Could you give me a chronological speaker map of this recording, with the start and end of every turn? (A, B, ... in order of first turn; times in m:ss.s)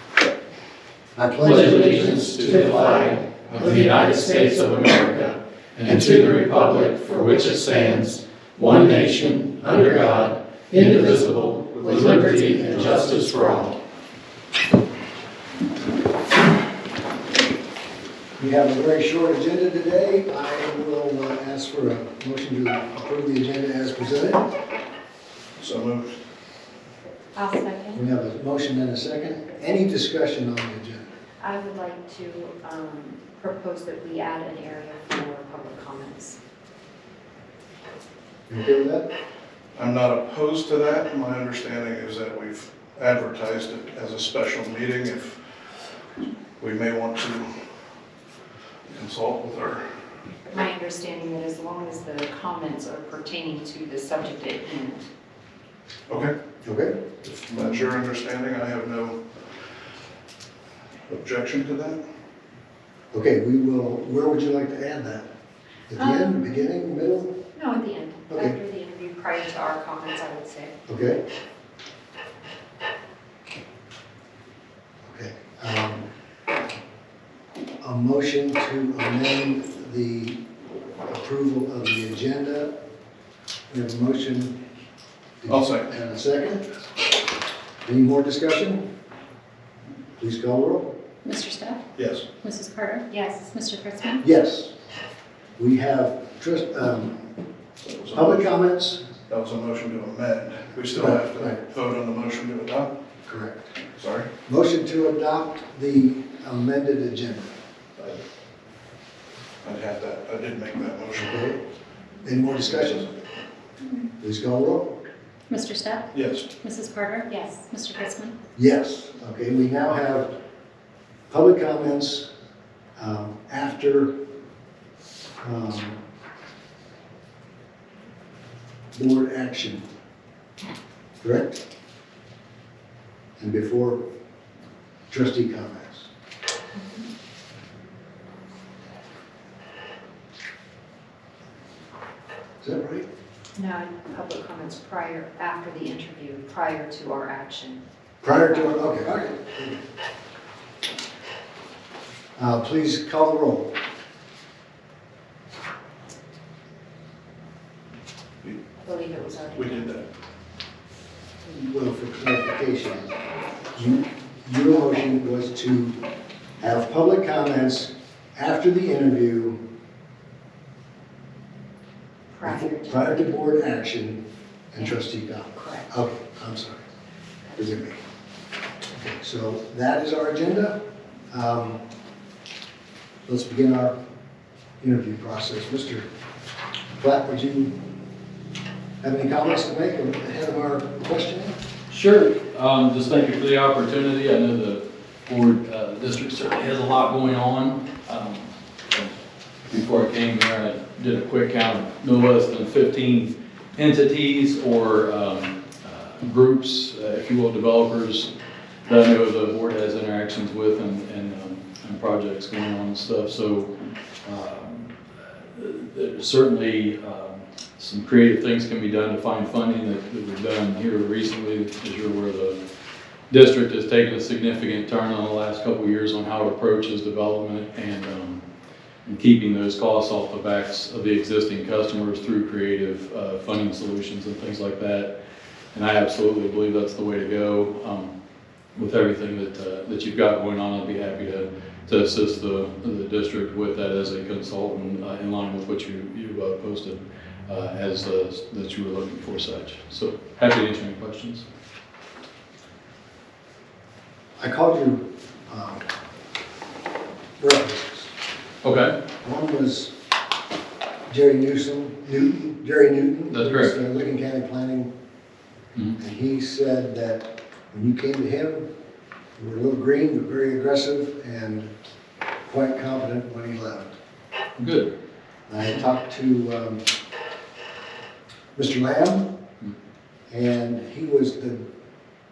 0:01.2-0:02.4 A
0:18.4-0:24.5 A
0:25.6-0:26.2 B
0:27.3-0:28.0 C
0:27.9-0:31.1 A
0:31.4-0:36.4 C
0:38.5-0:39.1 A
0:39.8-0:45.4 B
0:46.6-0:47.5 B
0:48.9-0:50.0 B
0:50.5-0:55.1 C
0:56.1-0:56.3 B
0:56.6-0:57.0 A
0:57.2-0:59.2 B
1:01.1-1:02.0 B
1:03.1-1:05.3 A
1:05.9-1:07.4 A
1:05.9-1:06.4 C
1:07.5-1:10.7 C
1:10.9-1:11.2 A
1:15.0-1:16.0 A
1:17.8-1:20.4 A
1:21.0-1:22.7 A
1:23.7-1:24.6 A
1:25.4-1:26.8 A
1:25.5-1:25.9 B
1:27.8-1:28.8 A
1:30.2-1:30.9 A
1:31.2-1:31.8 D
1:32.0-1:32.2 B
1:32.4-1:34.2 D
1:33.1-1:33.5 C
1:34.2-1:34.7 A
1:35.6-1:37.3 A
1:37.8-1:38.4 B
1:38.1-1:39.0 A
1:39.3-1:42.9 B
1:40.9-1:41.6 A
1:43.2-1:43.7 A
1:44.0-1:44.3 B
1:44.4-1:47.5 A
1:49.6-1:51.4 B
1:51.1-1:51.6 A
1:52.2-1:53.1 A
1:52.7-1:53.0 B
1:54.2-1:55.0 A
1:55.5-1:58.3 D
1:56.1-1:56.5 B
1:57.3-1:57.6 C
1:58.6-2:00.3 A
2:01.3-2:02.3 A
2:03.0-2:04.1 A
2:05.4-2:06.0 A
2:08.9-2:09.8 A
2:11.2-2:11.6 A
2:13.4-2:14.0 A
2:15.1-2:16.1 A
2:22.6-2:23.0 A
2:23.6-2:27.8 C
2:28.2-2:29.8 A
2:28.4-2:29.0 C
2:32.4-2:33.7 A
2:38.8-2:40.0 C
2:39.6-2:40.0 B
2:41.4-2:43.2 A
2:43.7-2:46.0 A
2:46.6-2:49.6 A
2:52.3-2:53.6 C
2:52.4-2:56.8 A
2:55.5-2:55.9 C
2:57.6-2:58.0 A
2:58.9-3:01.8 A
3:03.2-3:03.9 A
3:04.8-3:06.0 A
3:07.0-3:07.7 A
3:09.0-3:11.6 A
3:11.9-3:19.1 E
3:19.7-3:28.3 E
3:28.8-3:33.7 E
3:34.2-3:34.9 E
3:35.5-3:42.6 E
3:43.3-3:48.4 E
3:49.0-3:55.1 E
3:55.7-3:58.1 E
3:58.8-4:11.4 E
4:14.4-4:15.8 A
4:17.4-4:18.1 A
4:18.6-4:18.9 E
4:19.2-4:19.9 A
4:21.1-4:24.9 A
4:23.3-4:23.7 E
4:26.0-4:28.7 A
4:29.4-4:31.7 A
4:32.5-4:33.9 A
4:34.6-4:34.9 E
4:35.5-4:36.8 A
4:38.5-4:39.3 A
4:40.3-4:41.6 A